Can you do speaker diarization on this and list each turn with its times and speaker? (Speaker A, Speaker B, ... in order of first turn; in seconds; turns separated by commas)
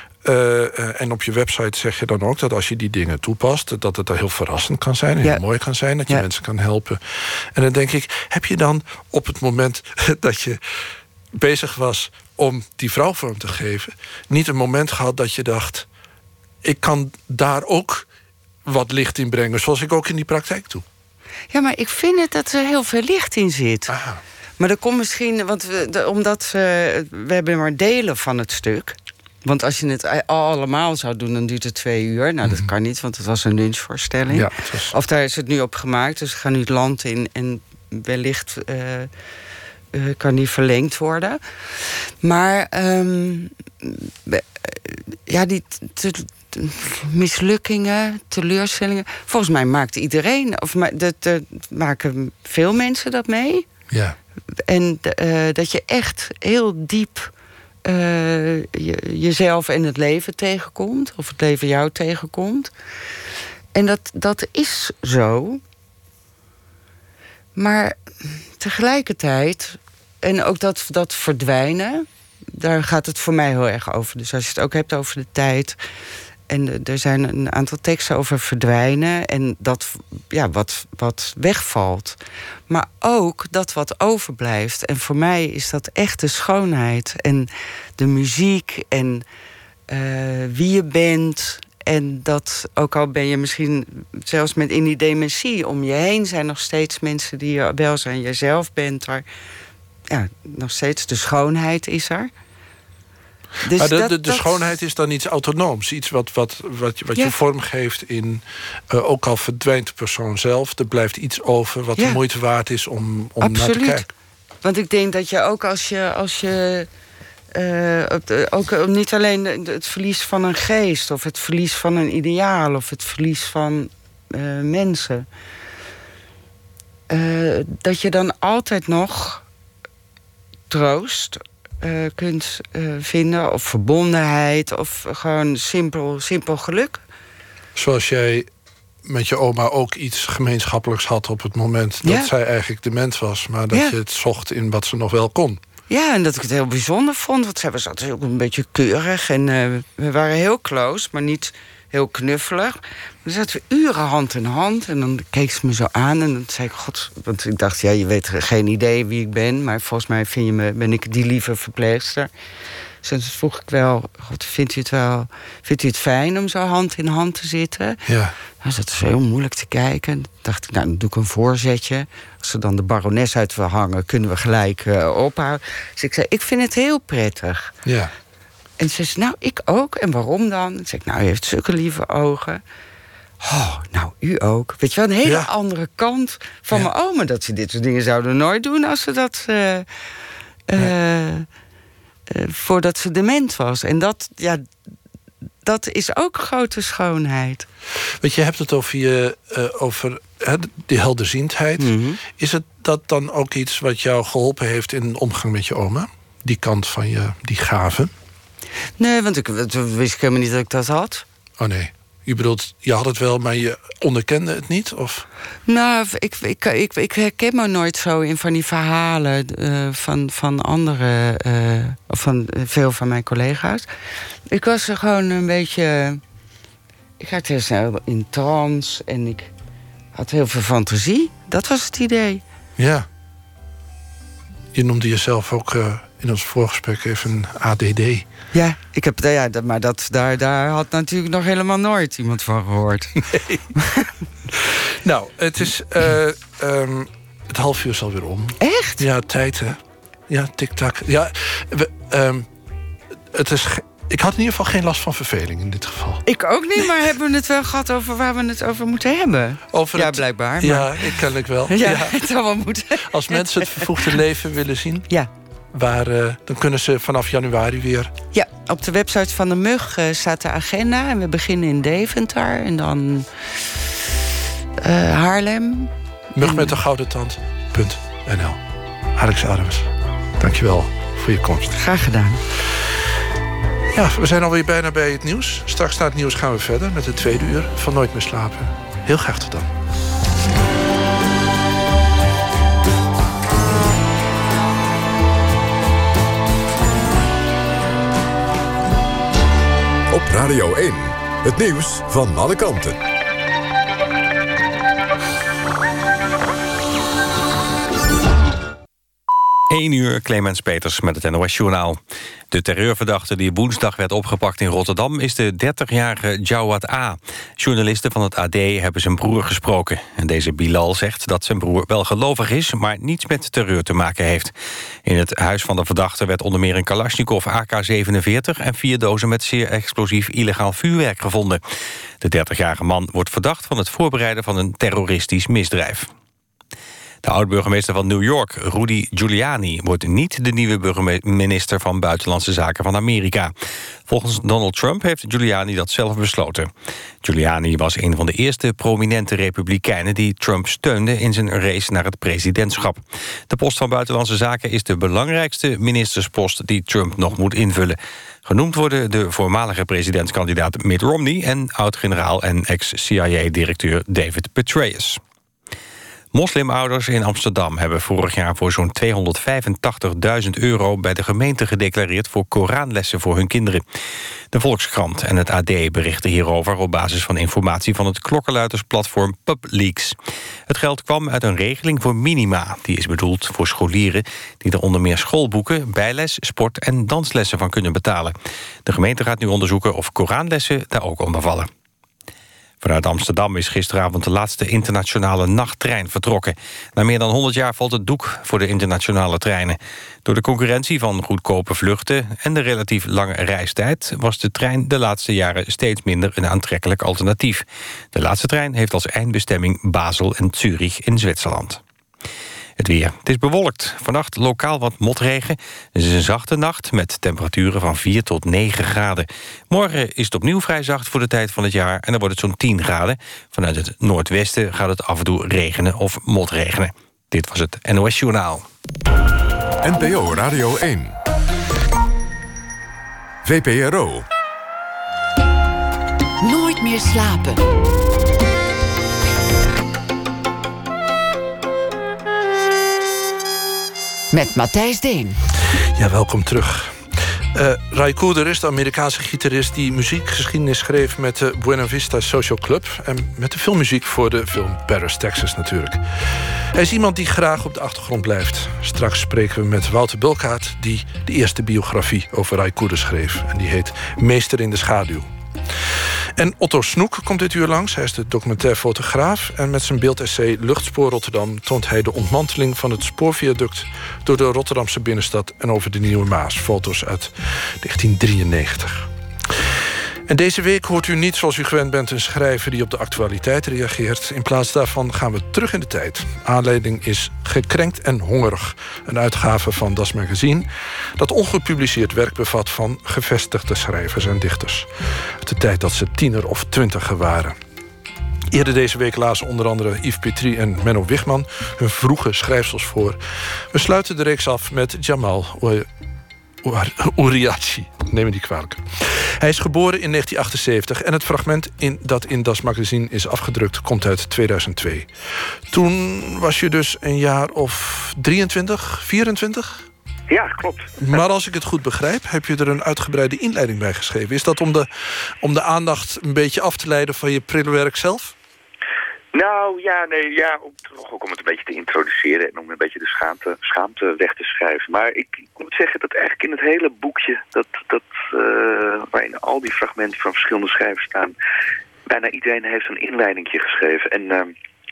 Speaker A: 0.2-15.9, Speaker A: 16.6-18.1, Speaker A: 18.6-20.8, Speaker B: 21.5-23.9, Speaker A: 23.9-24.2, Speaker B: 24.6-39.1, Speaker A: 32.4-32.7, Speaker A: 34.3-34.9, Speaker B: 39.9-53.6, Speaker A: 53.9-54.1, Speaker B: 54.7-57.3, Speaker B: 57.8-62.7, Speaker B: 63.7-65.6, Speaker B: 67.5-75.8, Speaker B: 76.5-89.2, Speaker B: 89.9-99.2, Speaker B: 100.1-102.3, Speaker B: 103.6-104.6, Speaker A: 103.7-114.1, Speaker B: 113.4-114.1, Speaker B: 114.6-116.9, Speaker B: 117.5-125.3, Speaker B: 127.1-129.4, Speaker B: 130.7-137.0, Speaker A: 137.8-138.5, Speaker A: 139.0-145.6, Speaker B: 142.0-142.3, Speaker B: 145.9-162.3, Speaker B: 163.0-168.0, Speaker A: 168.1-168.3, Speaker B: 168.6-177.7, Speaker A: 177.8-178.1, Speaker B: 178.8-182.6, Speaker B: 183.4-189.9, Speaker B: 190.7-191.4, Speaker B: 192.3-194.7, Speaker B: 195.6-197.7, Speaker A: 198.1-208.1, Speaker B: 201.8-202.2, Speaker B: 209.0-211.2, Speaker A: 211.6-215.3, Speaker B: 215.7-223.9, Speaker B: 224.5-226.2, Speaker B: 227.2-229.5, Speaker B: 230.1-232.4, Speaker A: 232.8-233.1, Speaker A: 234.7-238.3, Speaker B: 238.5-243.2, Speaker A: 243.3-243.6, Speaker B: 243.8-244.1, Speaker A: 244.5-252.5, Speaker B: 248.6-249.0, Speaker A: 253.3-256.2, Speaker B: 256.2-264.1, Speaker A: 259.7-262.2, Speaker A: 263.1-265.1, Speaker A: 265.7-268.1, Speaker B: 268.3-273.5, Speaker B: 274.8-276.7, Speaker A: 276.3-278.6, Speaker A: 279.1-281.8, Speaker B: 281.7-282.4, Speaker A: 283.9-289.7, Speaker C: 300.1-303.0, Speaker D: 309.7-312.0, Speaker D: 312.5-324.5, Speaker D: 325.0-331.6, Speaker D: 332.2-336.1, Speaker D: 337.2-343.5, Speaker D: 344.1-346.7, Speaker D: 347.2-365.2, Speaker D: 366.3-373.8, Speaker D: 374.5-380.1, Speaker D: 380.7-391.7, Speaker D: 392.8-411.8, Speaker D: 412.8-428.7, Speaker C: 429.8-431.1, Speaker C: 433.4-434.3, Speaker E: 436.4-437.7, Speaker E: 444.3-445.4, Speaker A: 445.8-497.6, Speaker A: 498.5-505.9, Speaker A: 506.6-515.1, Speaker A: 515.7-519.9, Speaker F: 520.3-521.1, Speaker A: 521.0-528.3, Speaker F: 529.3-541.3, Speaker F: 542.1-544.5